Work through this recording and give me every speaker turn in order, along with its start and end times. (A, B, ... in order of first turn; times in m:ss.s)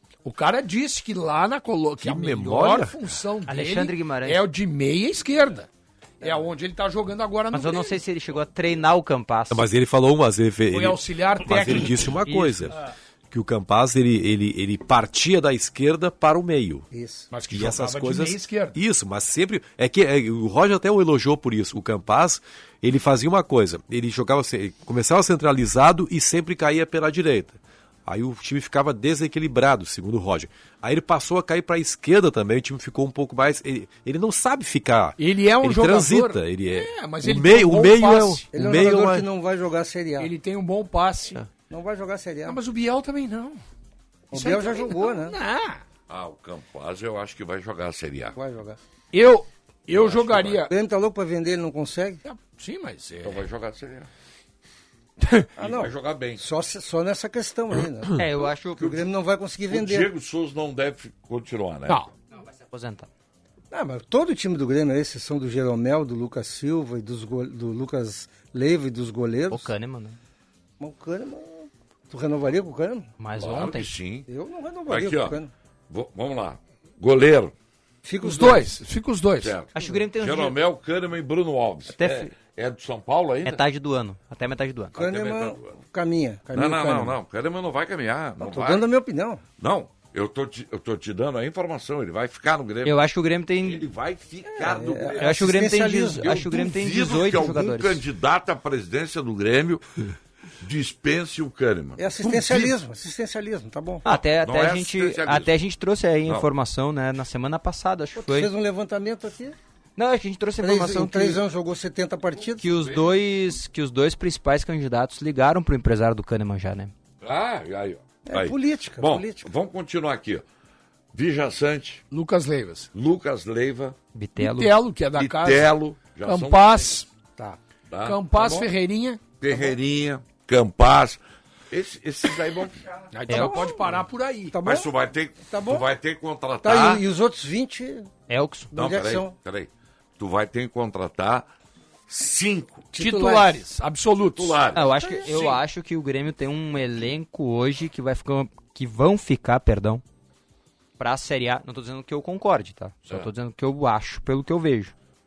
0:00.2-0:05.7 A
0:02.0-0:03.1 B
0:03.5-0:04.4 C
0:06.2-0:08.0 A
0:07.5-0:09.7 C
0:09.5-0:12.8 B
0:10.7-0:12.8 A
0:13.3-0:16.9 B
0:16.9-0:17.3 D
0:17.3-0:18.8 A
0:17.5-0:39.3 B
0:35.2-0:38.5 A
0:38.5-0:40.3 D
0:40.2-0:41.4 A
0:41.7-0:42.6 D
0:42.5-0:43.6 A
0:44.3-0:45.4 D
0:44.3-0:45.8 A
0:46.1-0:48.4 E
0:48.4-0:48.8 D
0:49.1-0:50.7 A
0:49.9-0:50.6 E
0:50.7-0:52.2 D
0:52.2-0:53.5 A
0:53.2-0:54.1 E
0:55.2-0:55.5 A
0:55.6-0:56.4 E
0:55.6-1:00.1 D
0:58.2-0:59.0 C
0:59.7-1:02.0 E
1:02.4-1:03.1 C
1:03.7-1:09.7 D
1:09.5-1:10.2 C
1:10.8-1:13.1 D
1:13.2-1:13.9 C
1:13.4-1:14.3 E
1:14.3-1:15.5 D
1:14.9-1:15.4 E
1:15.9-1:17.5 E
1:18.0-1:18.8 D
1:18.2-1:19.6 A
1:19.4-1:23.6 E
1:19.7-1:20.6 C
1:22.0-1:22.3 C
1:23.4-1:25.0 C
1:24.9-1:27.2 D
1:25.0-1:25.8 E
1:26.5-1:28.8 E
1:28.4-1:29.4 D
1:29.6-1:33.0 E
1:32.8-1:33.8 C
1:33.6-1:35.5 E
1:34.5-1:36.4 D
1:35.2-1:38.0 C
1:36.2-1:39.8 E
1:40.6-1:42.1 E
1:42.0-1:44.0 D
1:44.0-1:48.5 C
1:44.4-1:45.5 E
1:48.2-1:49.6 D
1:50.0-1:51.4 C
1:50.6-1:52.8 D
1:52.6-1:56.9 C
1:57.2-2:00.4 E
1:58.3-1:59.5 D
2:01.1-2:02.0 E
2:02.1-2:02.9 A
2:02.9-2:04.0 E
2:04.1-2:04.8 C
2:04.4-2:05.7 A
2:05.2-2:07.0 E
2:06.3-2:07.1 A
2:07.9-2:08.2 E
2:08.0-2:09.2 A
2:08.4-2:08.7 D
2:09.4-2:12.9 E
2:13.1-2:14.6 A
2:13.3-2:13.7 C
2:13.3-2:13.8 D
2:14.5-2:14.9 D
2:14.6-2:17.0 E
2:15.4-2:15.9 D
2:16.6-2:18.1 D
2:18.3-2:18.7 C
2:18.7-2:19.3 D
2:18.8-2:21.5 E
2:22.1-2:22.9 E
2:22.9-2:23.6 D
2:22.9-2:24.6 A
2:24.3-2:24.9 E
2:24.7-2:30.0 C
2:24.8-2:25.6 D
2:31.0-2:35.0 C